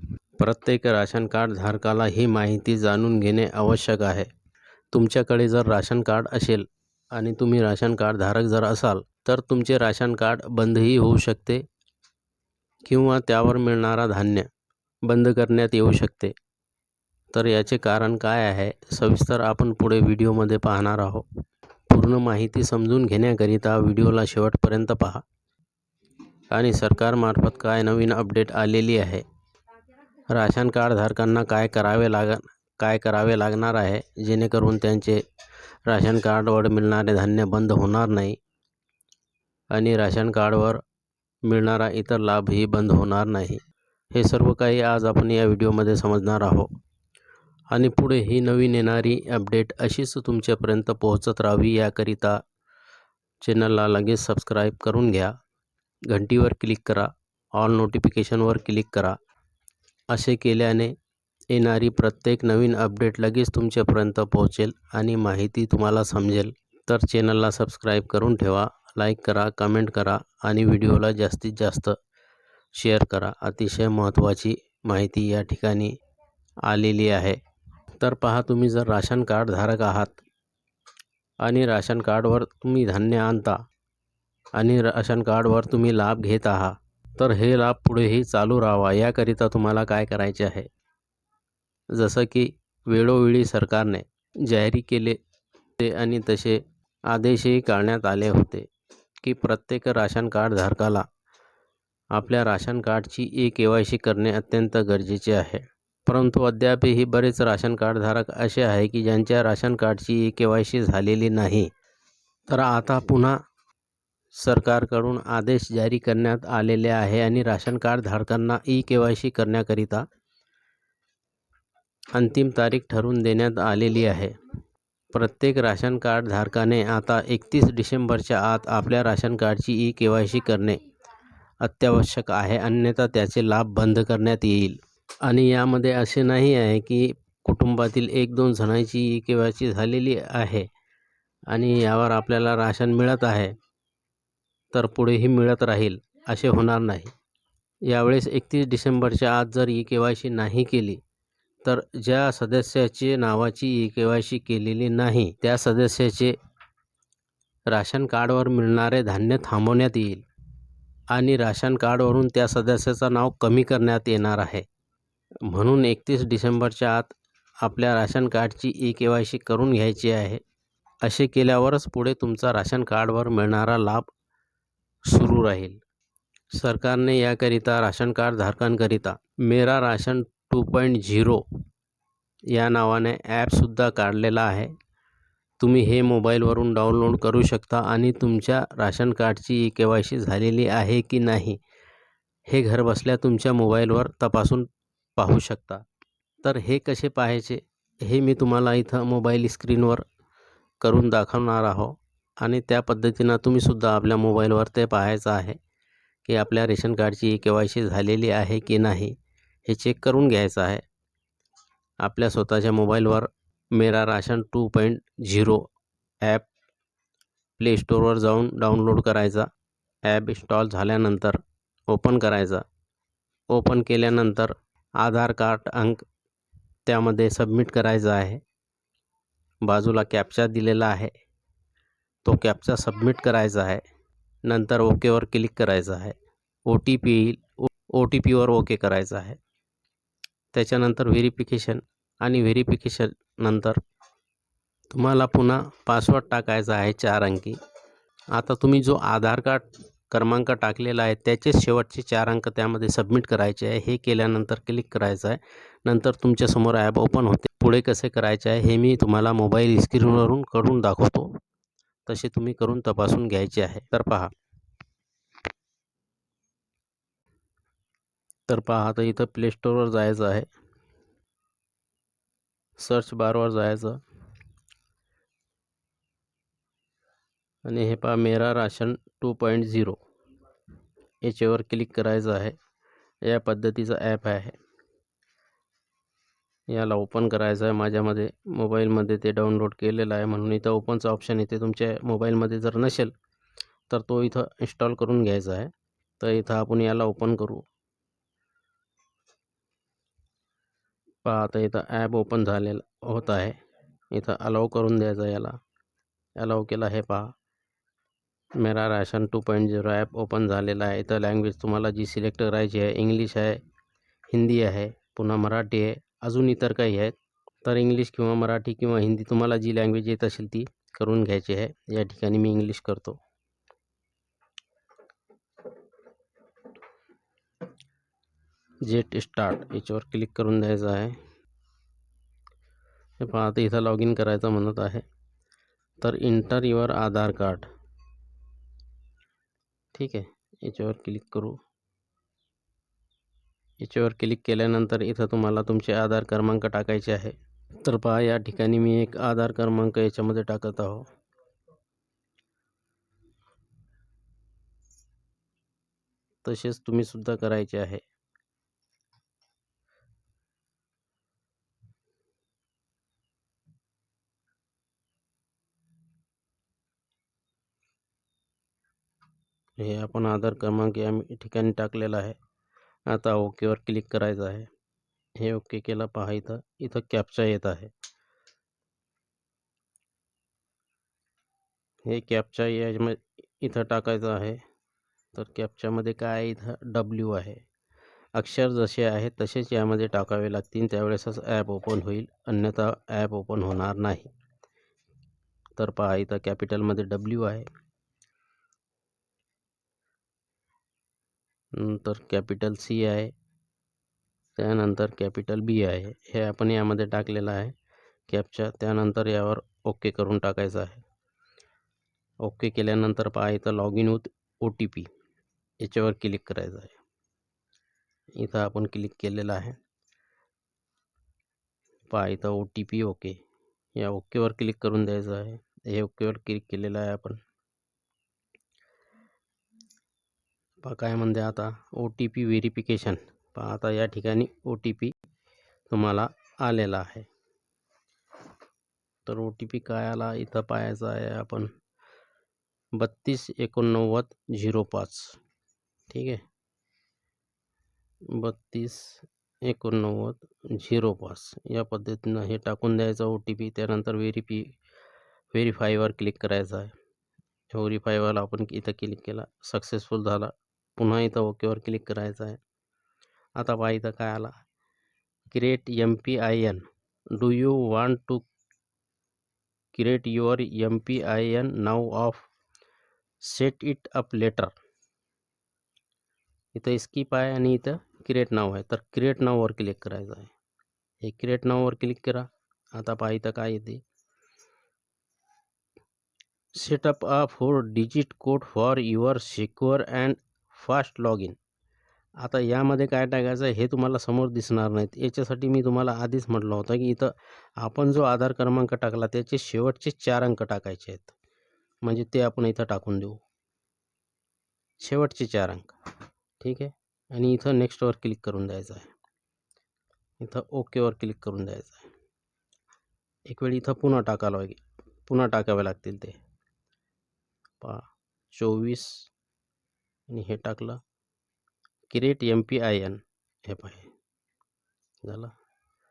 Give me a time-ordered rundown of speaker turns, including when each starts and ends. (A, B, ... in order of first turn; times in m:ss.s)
0:00.4-0:04.3 A
0:04.9-0:11.6 A
0:12.9-0:14.5 A
0:15.1-0:16.3 A
0:17.3-0:21.3 A
0:21.9-0:25.2 A
0:26.5-0:29.2 A
0:30.3-0:35.2 A
0:35.9-0:38.4 A
0:39.7-0:40.8 A
0:41.5-0:43.6 A
0:44.1-0:46.7 A
0:47.7-0:52.4 A
0:53.4-0:55.3 A
0:56.1-0:59.2 A
1:00.1-1:00.9 A
1:01.5-1:12.0 A
1:12.8-1:15.9 A
1:16.7-1:17.4 A
1:17.9-1:20.2 A
1:21.4-1:23.6 A
1:24.6-1:30.7 A
1:32.0-1:35.2 A
1:35.8-1:38.7 A
1:39.2-1:41.0 A
1:42.1-1:51.7 A
1:52.5-1:53.4 A
1:54.4-2:00.1 A
2:02.2-2:04.3 A
2:05.1-2:10.8 A
2:11.6-2:20.7 A
2:21.5-2:23.5 A
2:24.7-2:27.1 A
2:27.8-2:31.0 A
2:31.6-2:36.3 A
2:37.7-2:40.2 A
2:41.1-2:44.6 A
2:45.5-2:50.4 A
2:51.0-2:54.1 A
2:55.1-2:55.8 A
2:56.5-3:01.4 A
3:02.5-3:04.7 A
3:05.6-3:11.6 A
3:12.5-3:15.8 A
3:16.4-3:20.0 A
3:20.8-3:25.6 A
3:26.2-3:29.1 A
3:29.7-3:30.8 A
3:32.0-3:35.7 A
3:36.2-3:36.5 A
3:37.6-3:39.5 A
3:40.0-3:42.6 A
3:43.5-3:46.0 A
3:46.8-3:48.4 A
3:49.6-3:51.1 A
3:52.2-3:53.8 A
3:54.4-3:56.2 A
3:56.7-3:59.4 A
4:00.5-4:03.8 A
4:04.9-4:07.6 A
4:08.3-4:21.4 A
4:22.1-4:24.3 A
4:28.5-4:30.5 A
4:32.8-4:34.0 A
4:37.6-4:40.0 A
4:41.2-4:42.6 A
4:43.2-4:44.5 A
4:46.7-4:53.1 A
4:53.9-4:57.7 A
5:01.2-5:03.6 A
5:04.1-5:05.6 A
5:06.4-5:07.3 A
5:08.6-5:13.6 A
5:14.3-5:23.2 A
5:28.8-5:31.2 A
5:33.2-5:35.0 A
5:36.0-5:37.7 A
5:39.9-5:41.6 A
5:43.8-5:51.1 A
5:56.4-5:58.0 A
6:09.8-6:12.4 A
6:13.1-6:14.7 A
6:15.4-6:17.9 A
6:22.0-6:24.6 A
6:25.3-6:27.6 A
6:28.4-6:34.3 A
6:35.8-6:37.7 A
6:41.7-6:43.3 A
6:44.6-6:47.7 A
6:48.3-6:51.0 A
6:52.4-6:55.1 A
6:55.8-6:57.0 A
6:58.4-6:59.8 A
7:02.1-7:03.4 A
7:04.0-7:07.4 A
7:10.8-7:15.1 A
7:15.9-7:17.3 A
7:19.2-7:21.7 A
7:23.0-7:25.4 A
7:26.1-7:26.4 A
7:28.3-7:34.8 A
7:35.5-7:36.9 A
7:37.7-7:42.6 A
7:43.6-7:44.5 A
7:45.5-7:46.8 A
7:47.4-7:48.4 A
7:49.9-7:52.5 A
7:53.4-7:54.7 A
7:56.7-8:00.5 A
8:01.2-8:04.0 A
8:06.8-8:11.6 A
8:12.4-8:21.3 A
8:22.0-8:23.4 A
8:25.0-8:26.0 A
8:26.6-8:29.1 A
8:30.4-8:32.1 A
8:33.5-8:36.4 A
8:37.8-8:39.3 A
8:40.3-8:41.0 A
8:42.1-8:44.1 A
8:45.2-8:45.5 A